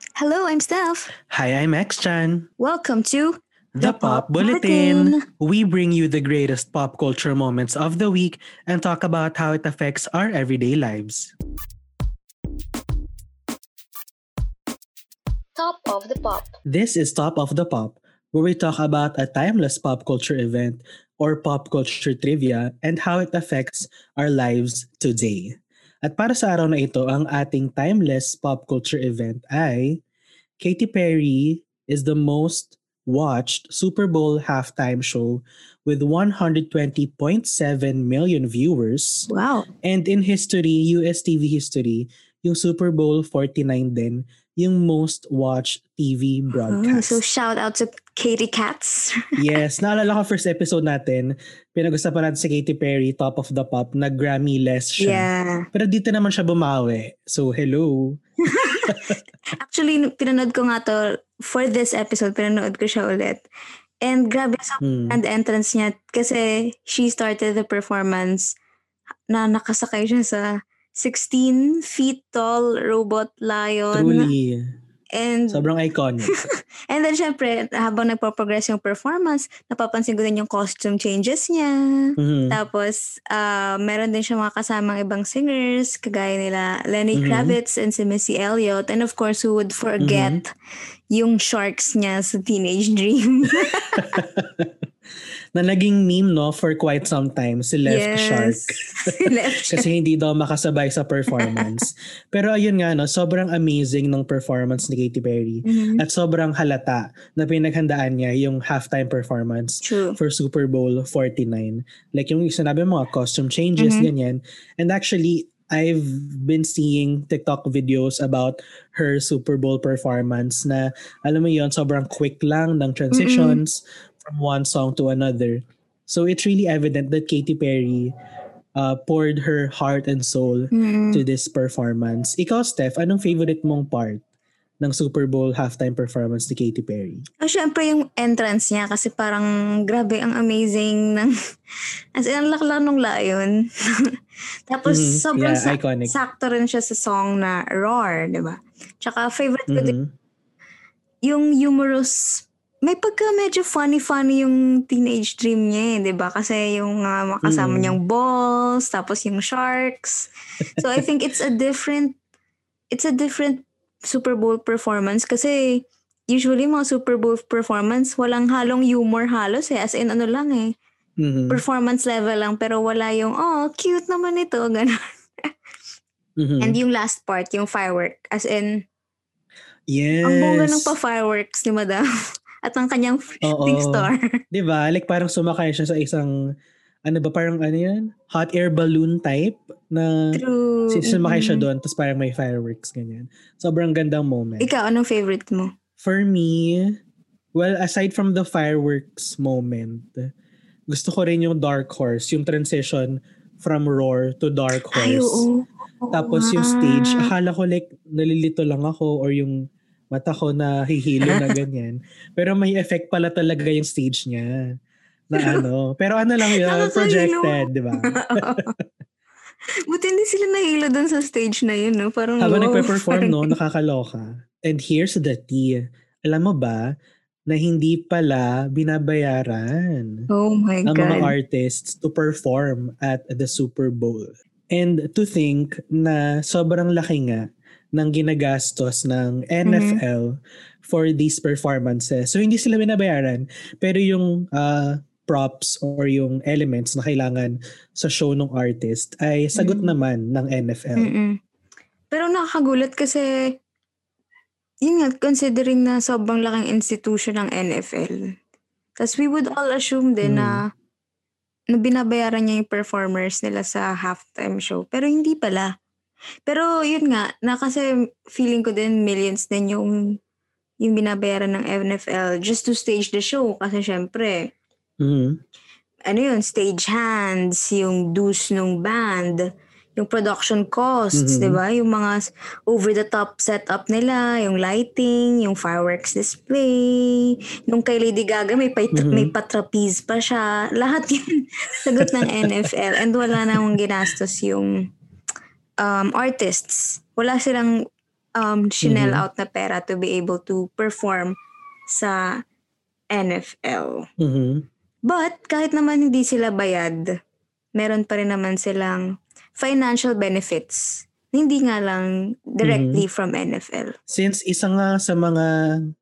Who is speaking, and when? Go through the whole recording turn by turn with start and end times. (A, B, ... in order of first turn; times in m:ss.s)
0:00.2-0:01.1 A
0:01.3-0:02.5 B
0:02.6-0:05.2 A
0:03.8-0:11.3 B
0:15.6-0:16.5 A
0:16.7-0:30.0 B
0:30.6-0:39.3 B
0:39.3-0:39.7 A
0:39.8-0:47.2 B
0:46.6-0:49.4 A
0:49.4-0:58.2 B
0:55.0-0:55.7 A
0:58.5-1:03.4 A
0:58.8-0:59.2 B
1:04.0-1:08.5 A
1:04.8-1:05.2 B
1:09.3-1:14.3 A
1:13.9-1:14.7 B
1:15.2-1:15.7 A
1:15.5-1:16.4 B
1:16.2-1:30.5 A
1:22.2-1:22.6 B
1:27.2-1:27.6 B
1:30.0-1:30.4 B
1:31.1-1:34.1 A
1:33.6-1:34.7 B
1:35.6-2:08.1 B
1:37.9-1:39.9 A
1:41.3-1:41.8 A
1:45.6-1:46.0 A
1:49.8-1:50.2 A
1:53.8-1:54.1 A
2:03.1-2:03.6 A
2:08.8-2:14.2 B
2:10.7-2:11.2 A
2:14.8-2:17.2 B
2:17.4-2:21.3 A
2:22.2-2:24.0 A
2:24.7-2:30.0 A
2:24.9-2:26.2 B
2:29.7-2:30.1 B
2:31.2-2:42.2 A
2:37.4-2:38.0 B
2:42.9-2:50.7 A
2:51.2-2:51.6 B
2:51.5-2:55.5 A
2:56.4-2:56.8 B
2:56.6-2:58.8 A
2:59.9-3:00.9 B
3:00.2-3:02.0 A
3:02.6-3:04.2 A
3:03.4-3:06.3 B
3:07.1-3:14.7 B
3:10.3-3:11.7 A
3:14.6-3:15.7 A
3:16.0-3:17.0 B
3:17.6-3:20.3 B
3:20.9-3:25.5 B
3:24.8-3:27.3 A
3:26.1-3:34.7 B
3:31.3-3:31.5 A
3:35.3-3:38.8 B
3:36.5-3:38.7 A
3:39.9-3:43.6 A
3:42.4-3:46.9 B
3:47.5-3:50.3 B
3:50.3-3:51.3 A
3:50.9-3:57.4 B
3:58.0-4:11.1 B
3:59.7-4:00.0 A
4:09.6-4:10.0 A
4:11.0-4:11.4 A
4:12.1-4:13.3 A
4:14.8-4:18.2 A
4:19.0-4:20.7 A
4:20.2-4:20.6 B
4:21.7-4:25.7 A
4:26.5-4:30.2 A
4:30.8-4:34.4 A
4:35.0-4:35.4 B
4:36.1-4:39.4 A
4:40.0-4:54.8 A
4:41.2-4:41.6 B
4:48.9-4:49.3 B
4:52.2-4:52.5 B
4:53.5-4:53.8 B
4:55.8-4:57.8 A
4:58.4-5:01.4 A
4:58.8-4:59.2 B
5:01.9-5:02.4 A
5:03.1-5:04.1 A
5:04.2-5:04.7 B
5:05.1-5:07.0 A
5:07.8-5:09.0 A
5:09.6-5:14.0 A
5:12.6-5:13.0 B
5:14.1-5:15.6 B